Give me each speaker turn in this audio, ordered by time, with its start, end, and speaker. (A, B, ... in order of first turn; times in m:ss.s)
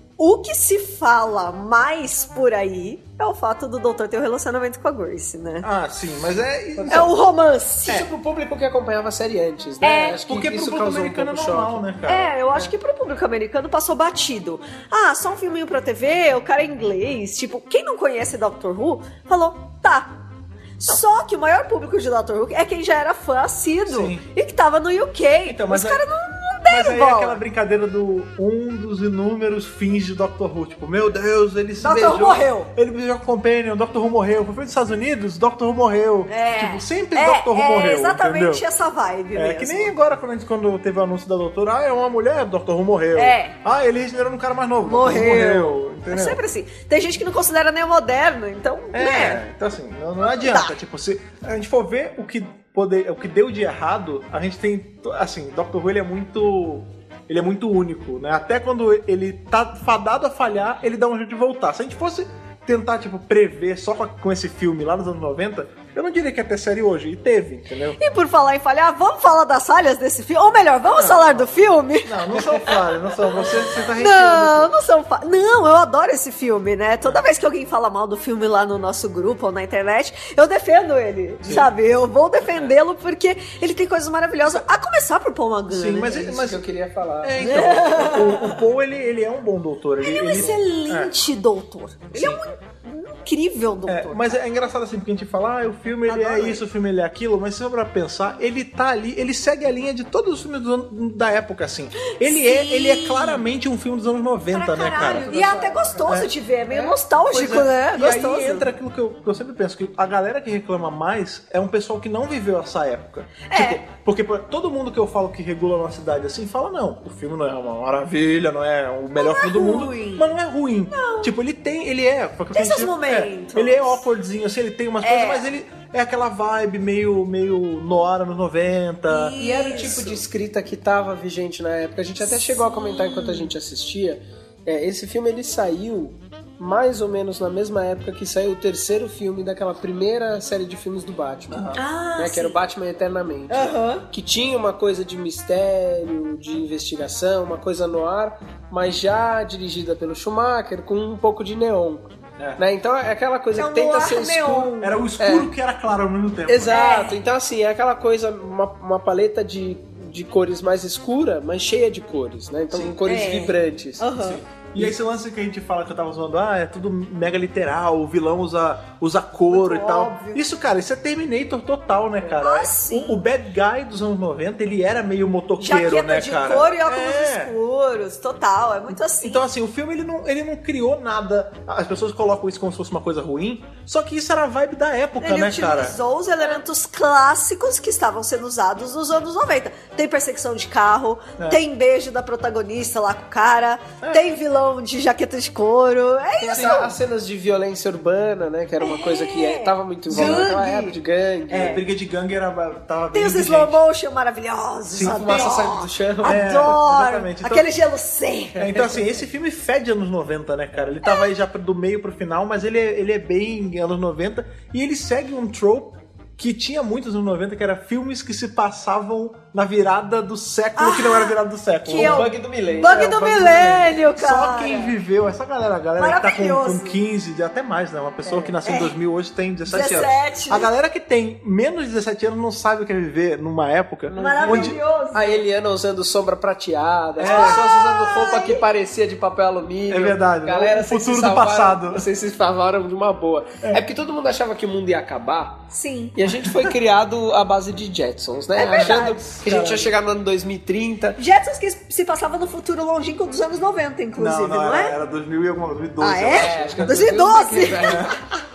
0:00.2-0:05.7 A
0:05.6-0:07.2 B
0:06.7-0:07.1 C
0:06.9-0:08.1 A
0:07.9-0:11.8 C
0:09.8-0:10.2 A
0:10.2-0:12.3 B
0:12.1-0:20.2 A
0:20.8-0:27.4 A
0:23.9-0:24.2 B
0:25.4-0:26.0 B
0:26.7-0:38.6 B
0:31.8-0:32.7 A
0:36.3-0:39.9 A
0:39.3-0:46.4 B
0:43.1-0:43.6 A
0:44.8-0:49.4 A
0:48.9-1:08.0 B
0:50.2-0:50.7 A
1:08.0-1:12.2 A
1:10.9-1:14.7 B
1:13.4-1:13.8 C
1:13.9-1:26.2 A
1:21.4-1:21.7 B
1:25.7-1:26.6 B
1:26.0-1:28.1 C
1:27.2-1:31.1 B
1:27.4-1:28.6 A
1:30.0-1:34.4 A
1:32.1-1:32.4 B
1:33.8-1:45.3 B
1:36.0-1:36.6 A
1:42.0-1:43.4 A
1:44.5-1:48.7 A
1:45.0-1:47.6 C
1:47.3-2:09.4 B
1:53.4-1:53.8 A
1:59.2-2:00.3 A
2:00.9-2:01.3 A
2:02.5-2:04.0 A
2:05.0-2:05.4 A
2:09.1-2:10.2 A
2:09.4-2:35.5 C
2:12.2-2:13.5 A
2:21.5-2:21.8 B
2:21.7-2:22.6 A
2:23.5-2:24.0 A
2:33.5-2:35.0 A
2:34.8-2:36.8 B
2:36.5-2:44.1 C
2:36.7-2:37.2 A
2:43.0-2:44.4 A
2:44.2-2:57.5 B
2:49.5-2:50.4 A
2:52.4-2:53.2 A
2:55.6-2:59.4 A
2:59.2-3:06.0 B
3:05.2-3:16.9 A
3:14.0-3:14.2 B
3:16.4-3:21.8 C
3:16.5-3:16.8 B
3:18.8-3:21.0 A
3:20.1-3:20.5 B
3:21.5-3:23.8 B
3:23.1-3:28.7 A
3:24.9-3:25.6 B
3:25.0-3:26.5 C
3:26.2-3:27.7 B
3:28.6-3:29.2 C
3:28.6-3:42.3 B
3:31.0-3:31.3 A
3:40.8-3:44.9 A
3:41.9-3:43.6 C
3:42.8-3:54.8 B
3:46.0-3:47.0 A
3:48.2-3:48.6 C
3:48.6-3:49.0 A
3:49.7-3:50.7 A
3:54.1-4:11.2 C
3:54.2-3:55.4 A
3:57.2-3:57.7 B
3:57.2-3:58.6 A
3:59.9-4:02.0 B
4:05.7-4:06.1 A
4:08.6-4:09.3 A
4:09.4-4:09.9 B
4:11.2-4:15.0 A
4:14.2-4:17.2 B
4:16.0-4:18.1 A
4:16.3-4:18.2 C
4:17.8-4:18.1 B